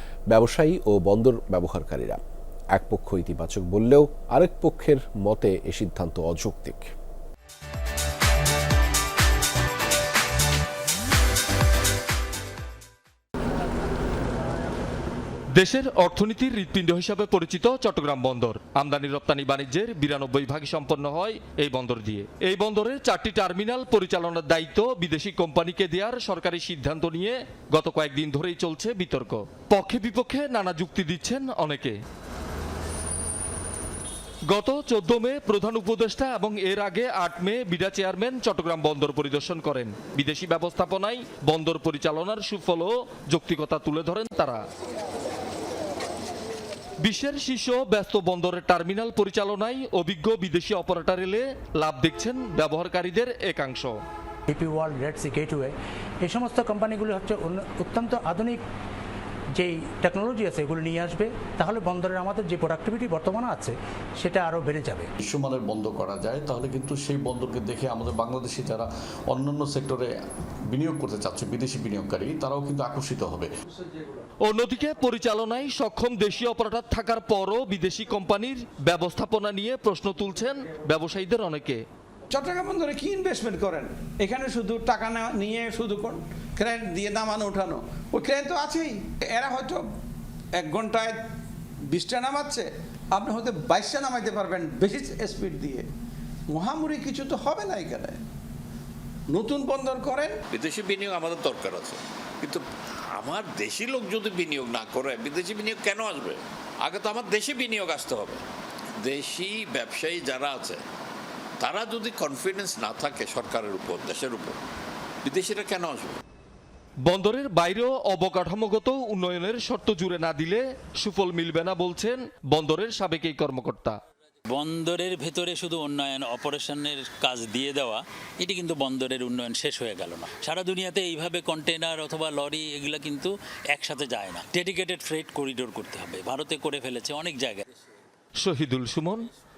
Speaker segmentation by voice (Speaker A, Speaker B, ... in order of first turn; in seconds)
Speaker A: 0.3-2.2, 2.7-6.9
Speaker B: 15.5-32.0, 34.5-44.6, 47.0-54.0, 74.4-81.8, 117.0-124.0, 138.4-139.3
Speaker C: 54.5-58.6, 59.6-65.1
Speaker D: 65.2-70.1, 70.7-73.5
Speaker E: 82.3-89.9, 90.5-91.2, 91.9-95.9, 96.5-98.2, 99.3-100.4
Speaker F: 100.5-108.4, 109.0-110.8, 111.6-114.6, 115.2-116.2
Speaker G: 124.5-137.6